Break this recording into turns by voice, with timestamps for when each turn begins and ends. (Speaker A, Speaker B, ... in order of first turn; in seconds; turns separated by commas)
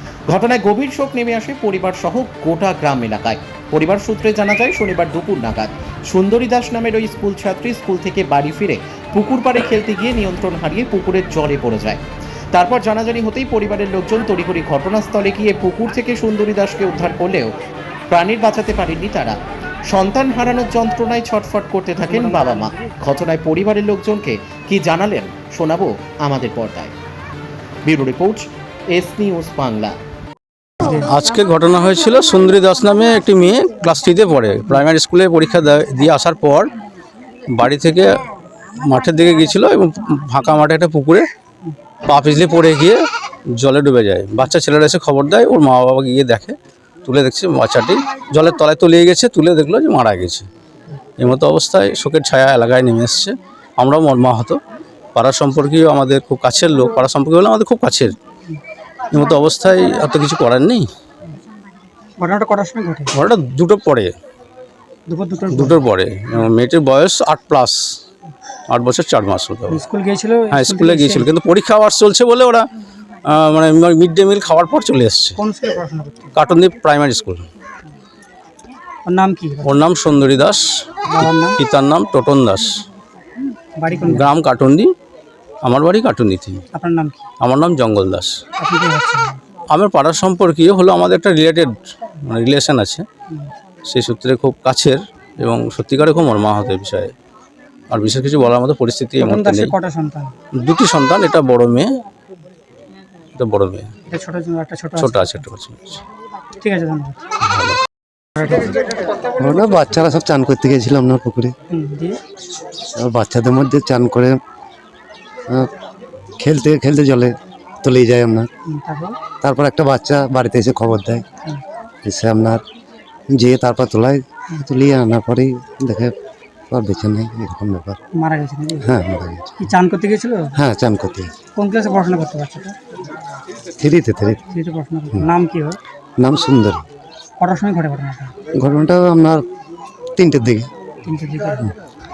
Speaker A: 0.3-17.5, Speaker A: 18.1-19.4, Speaker A: 19.9-26.9, Speaker B: 22.0-22.9, Speaker A: 27.9-29.9, Speaker B: 30.8-31.1, Speaker C: 30.9-36.7, Speaker C: 37.5-41.3, Speaker C: 42.1-43.0, Speaker C: 43.6-50.5, Speaker C: 51.2-54.6, Speaker C: 55.1-58.1, Speaker C: 59.1-60.9, Speaker B: 62.2-63.1, Speaker C: 63.1-64.1, Speaker B: 65.1-65.8, Speaker C: 65.5-67.8, Speaker C: 68.7-69.8, Speaker B: 69.7-71.3, Speaker C: 70.5-72.7, Speaker C: 73.2-75.4, Speaker B: 75.4-76.4, Speaker C: 76.4-77.5, Speaker B: 79.0-79.8, Speaker C: 79.6-80.8, Speaker B: 81.1-81.6, Speaker C: 81.6-82.9, Speaker B: 83.8-84.3, Speaker C: 83.9-84.9, Speaker C: 85.6-86.6, Speaker B: 86.7-87.2, Speaker C: 87.4-88.4, Speaker B: 88.6-89.4, Speaker C: 89.7-93.0, Speaker C: 93.9-97.1, Speaker C: 97.9-99.7, Speaker B: 99.2-100.3, Speaker C: 100.6-102.0, Speaker C: 103.4-103.9, Speaker B: 104.1-105.5, Speaker C: 105.0-106.0, Speaker B: 106.5-107.2, Speaker C: 107.4-107.8, Speaker B: 108.4-108.7, Speaker D: 109.4-111.5, Speaker B: 111.7-112.2, Speaker D: 113.0-114.4, Speaker D: 116.4-118.5, Speaker B: 118.7-119.2, Speaker D: 119.4-121.2, Speaker D: 122.0-122.6, Speaker D: 123.3-126.1, Speaker D: 126.7-128.0, Speaker B: 128.2-128.9, Speaker D: 128.8-129.7, Speaker B: 129.6-130.6, Speaker D: 130.6-131.3, Speaker B: 131.5-132.8, Speaker D: 133.8-134.4, Speaker B: 134.5-135.8, Speaker D: 136.2-136.8, Speaker B: 137.4-138.3, Speaker D: 138.5-139.4, Speaker D: 140.2-140.7, Speaker B: 141.0-141.7